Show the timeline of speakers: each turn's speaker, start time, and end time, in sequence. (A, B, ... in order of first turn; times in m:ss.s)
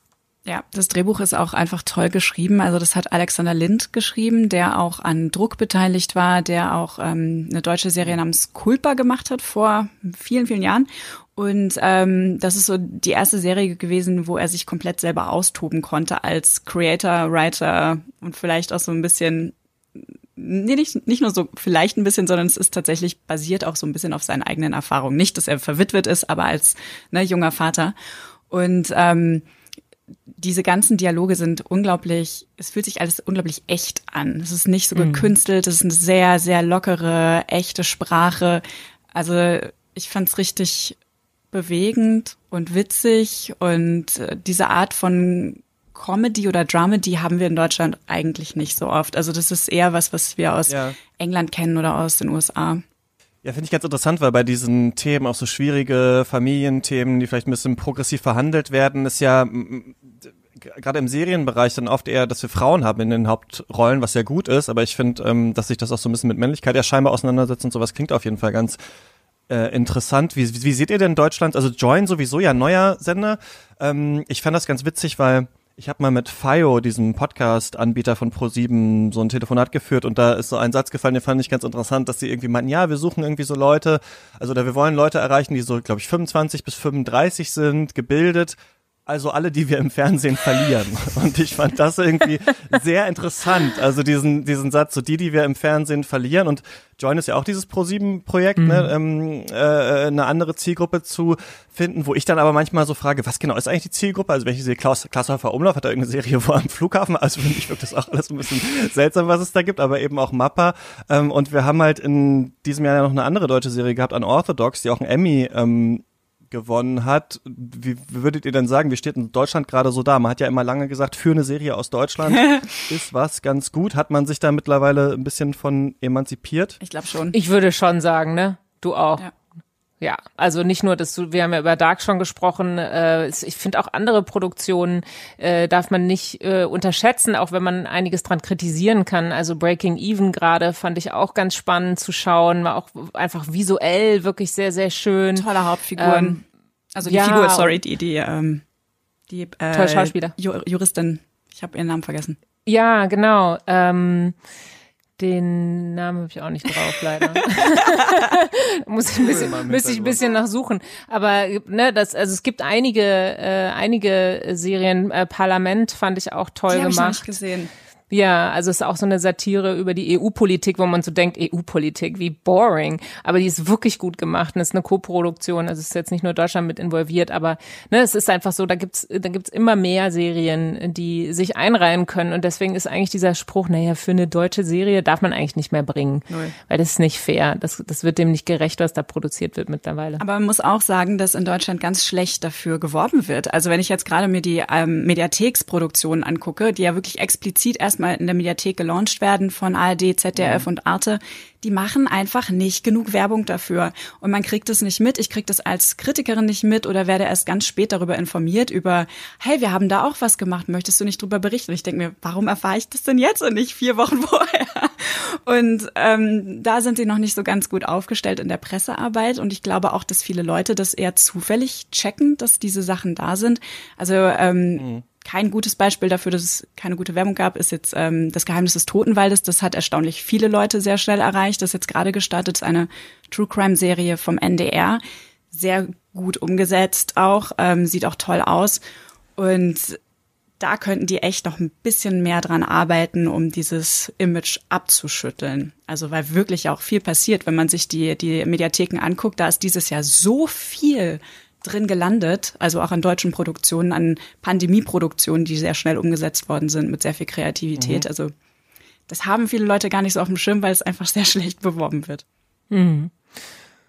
0:00.5-0:19.5 A
0:20.4-0:28.0 A
0:28.5-0:29.4 A
0:30.4-0:38.6 A
0:35.0-0:35.3 B
0:39.1-0:41.0 A
0:41.5-0:52.8 A
0:50.7-0:51.0 C
0:53.4-1:08.8 C
1:09.5-2:06.8 C
1:38.6-1:38.9 B
2:06.8-2:07.4 A
2:07.3-2:09.3 B
2:10.0-2:25.5 B
2:25.4-2:26.4 A
2:26.0-2:26.4 B
2:27.0-2:28.6 A
2:27.0-2:27.8 B
2:29.3-2:32.4 A
2:29.7-2:30.3 B
2:32.7-2:34.4 B
2:35.2-2:47.3 B
2:37.7-2:38.0 A
2:39.2-2:40.2 C
2:46.7-2:47.7 A
2:48.1-3:10.2 B
3:06.3-3:06.6 A
3:10.2-3:55.0 A
3:20.4-3:20.7 C
3:44.8-3:45.0 C
3:55.5-3:58.8 A
3:59.4-4:00.0 A
4:00.6-4:18.3 A
4:17.8-4:18.1 C
4:19.1-4:22.2 A
4:22.7-4:23.1 B